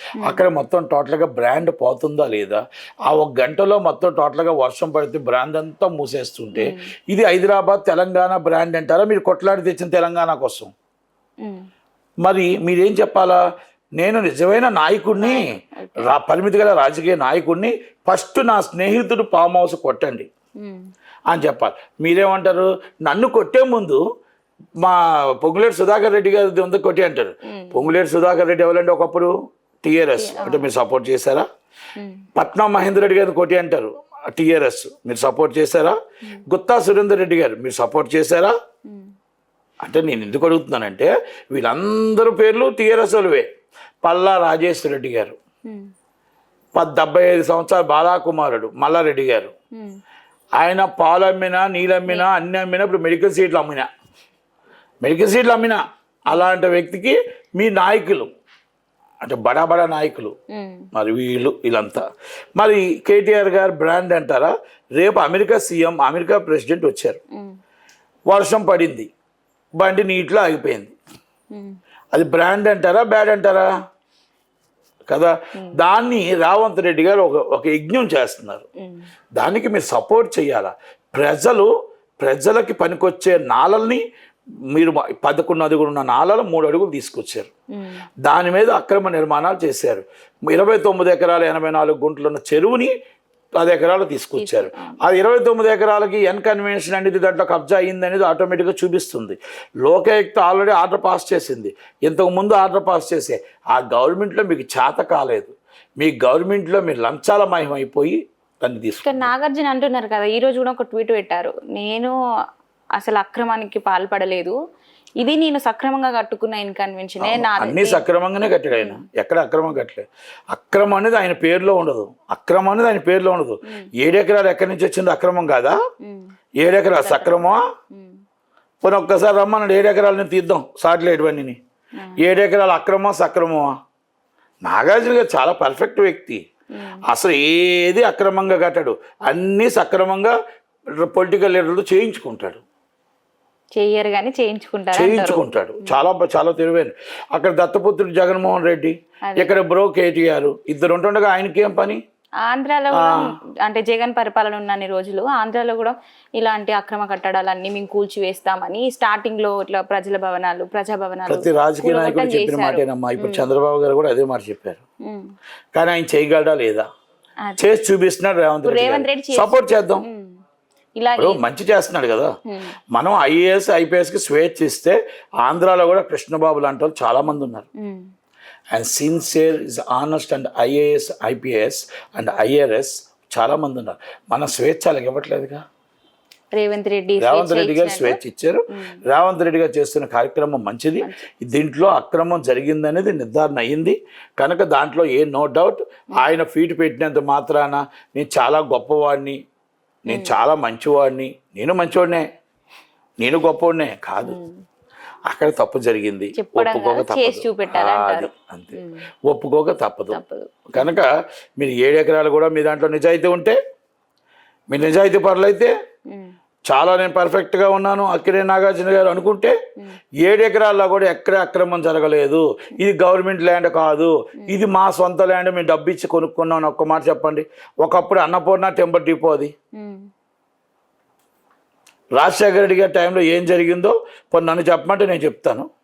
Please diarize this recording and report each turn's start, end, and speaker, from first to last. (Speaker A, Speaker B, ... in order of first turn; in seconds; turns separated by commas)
Speaker A: 0.2-10.7, Speaker B: 6.5-6.8, Speaker A: 12.2-13.4, Speaker A: 14.0-15.5, Speaker B: 15.2-16.1, Speaker A: 16.0-20.3, Speaker B: 20.6-20.9, Speaker A: 21.3-24.0, Speaker A: 24.8-31.4, Speaker B: 27.4-27.9, Speaker B: 30.2-30.7, Speaker B: 31.9-32.2, Speaker A: 32.4-36.0, Speaker A: 36.5-38.5, Speaker A: 39.8-43.5, Speaker A: 44.0-45.4, Speaker A: 46.7-49.5, Speaker A: 50.6-53.9, Speaker A: 55.0-58.3, Speaker A: 59.2-60.3, Speaker B: 60.5-60.9, Speaker A: 60.9-62.0, Speaker A: 62.5-67.2, Speaker A: 68.3-69.1, Speaker A: 69.8-70.9, Speaker A: 72.1-73.7, Speaker A: 75.1-78.6, Speaker A: 79.3-84.0, Speaker A: 84.7-87.5, Speaker B: 87.8-88.0, Speaker A: 88.2-92.9, Speaker A: 93.6-109.3, Speaker B: 94.3-95.0, Speaker B: 109.0-112.1, Speaker B: 113.0-114.5, Speaker B: 115.2-118.0, Speaker A: 117.2-125.8, Speaker B: 118.7-119.0, Speaker B: 126.0-126.3, Speaker A: 126.6-127.6, Speaker B: 126.9-128.2, Speaker A: 128.8-131.6, Speaker B: 131.9-132.3, Speaker A: 132.2-133.7, Speaker A: 134.6-136.4, Speaker B: 136.7-137.0, Speaker A: 137.1-140.3, Speaker A: 141.0-142.6, Speaker B: 143.8-146.0, Speaker A: 144.9-152.0, Speaker B: 152.4-163.4, Speaker A: 152.9-153.3, Speaker A: 161.3-164.8, Speaker B: 165.1-165.3, Speaker A: 165.7-166.8, Speaker A: 167.6-170.1, Speaker B: 168.6-170.3, Speaker B: 171.0-171.4, Speaker A: 171.2-172.3, Speaker B: 172.5-172.7, Speaker A: 172.9-177.7, Speaker B: 177.8-178.1, Speaker A: 178.7-185.6, Speaker B: 186.5-188.2, Speaker A: 187.2-199.4, Speaker B: 188.7-189.0, Speaker B: 191.0-191.2, Speaker B: 200.1-200.4, Speaker A: 200.1-202.2, Speaker A: 203.2-204.4, Speaker B: 204.2-204.6, Speaker A: 205.3-210.2, Speaker B: 206.3-209.0, Speaker B: 210.1-211.0, Speaker A: 210.7-213.6, Speaker A: 214.7-215.7, Speaker A: 216.7-219.5, Speaker A: 220.2-229.5, Speaker B: 224.4-224.7, Speaker B: 229.7-230.1, Speaker A: 232.2-235.7